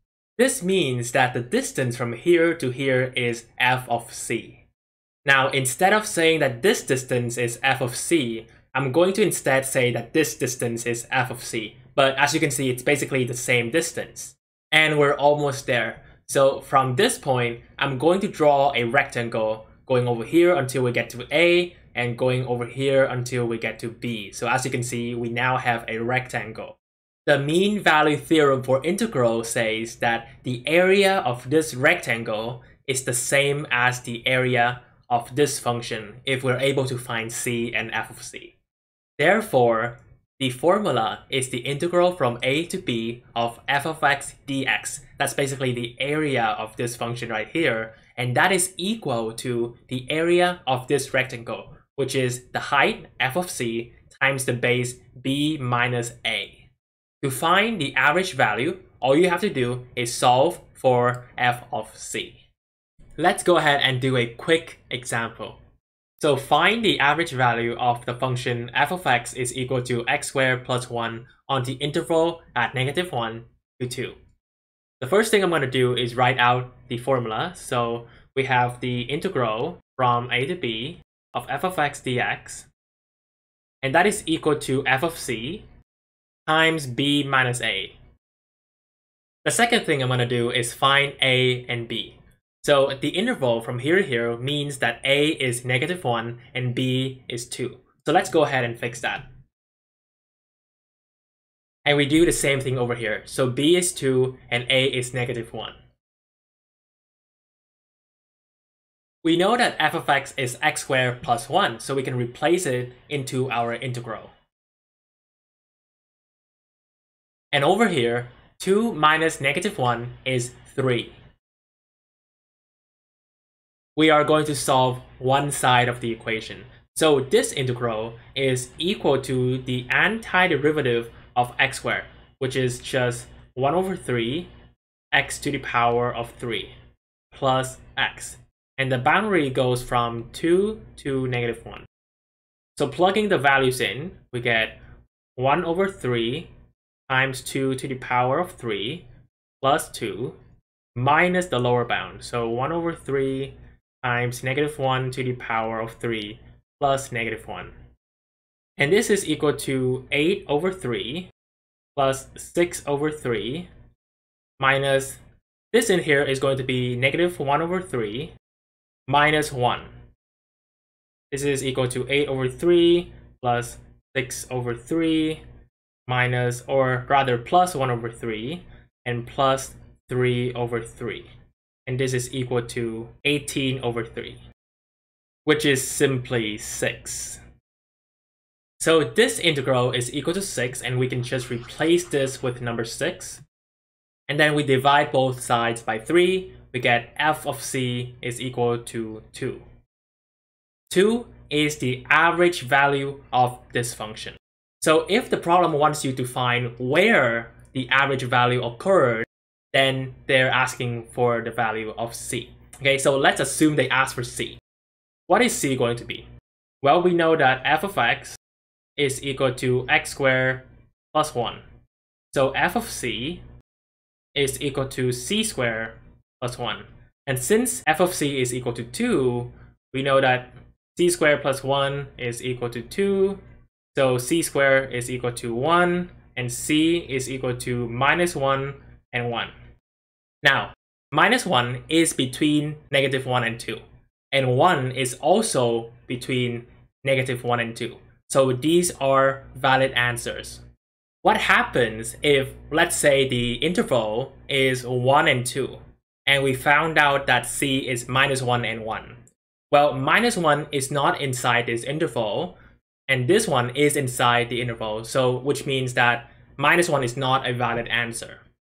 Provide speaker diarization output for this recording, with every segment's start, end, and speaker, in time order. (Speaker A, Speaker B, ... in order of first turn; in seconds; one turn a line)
Speaker A: 0.4-4.6
Speaker A: 5.2-38.5
Speaker A: 39.2-56.7
Speaker A: 57.2-62.4
Speaker A: 63.2-65.6
Speaker A: 66.2-74.2
Speaker A: 75.0-82.7
Speaker A: 83.8-85.6
Speaker A: 86.5-88.0
Speaker A: 89.4-99.2
Speaker A: 101.8-105.8
Speaker A: 109.2-114.3
Speaker A: 117.5-121.2
Speaker A: 124.0-134.5
Speaker A: 135.1-136.7
Speaker A: 137.3-141.9
Speaker A: 142.8-144.8
Speaker A: 145.3-146.5
Speaker A: 147.1-149.0
Speaker A: 149.6-150.3
Speaker A: 150.9-157.7
Speaker A: 158.8-161.3
Speaker A: 161.9-163.7
Speaker A: 164.6-165.2
Speaker A: 165.7-168.3
Speaker A: 169.1-169.9
Speaker A: 171.3-175.4
Speaker A: 176.1-181.3
Speaker A: 181.9-184.4
Speaker A: 185.4-187.4
Speaker A: 188.8-193.4
Speaker A: 194.3-199.6
Speaker A: 200.9-214.6
Speaker A: 215.3-216.2
Speaker A: 216.8-218.4
Speaker A: 219.0-221.6
Speaker A: 222.3-223.4
Speaker A: 224.3-233.4
Speaker A: 233.9-239.5
Speaker A: 240.4-250.6
Speaker A: 251.2-259.2
Speaker A: 259.7-262.6
Speaker A: 263.1-268.4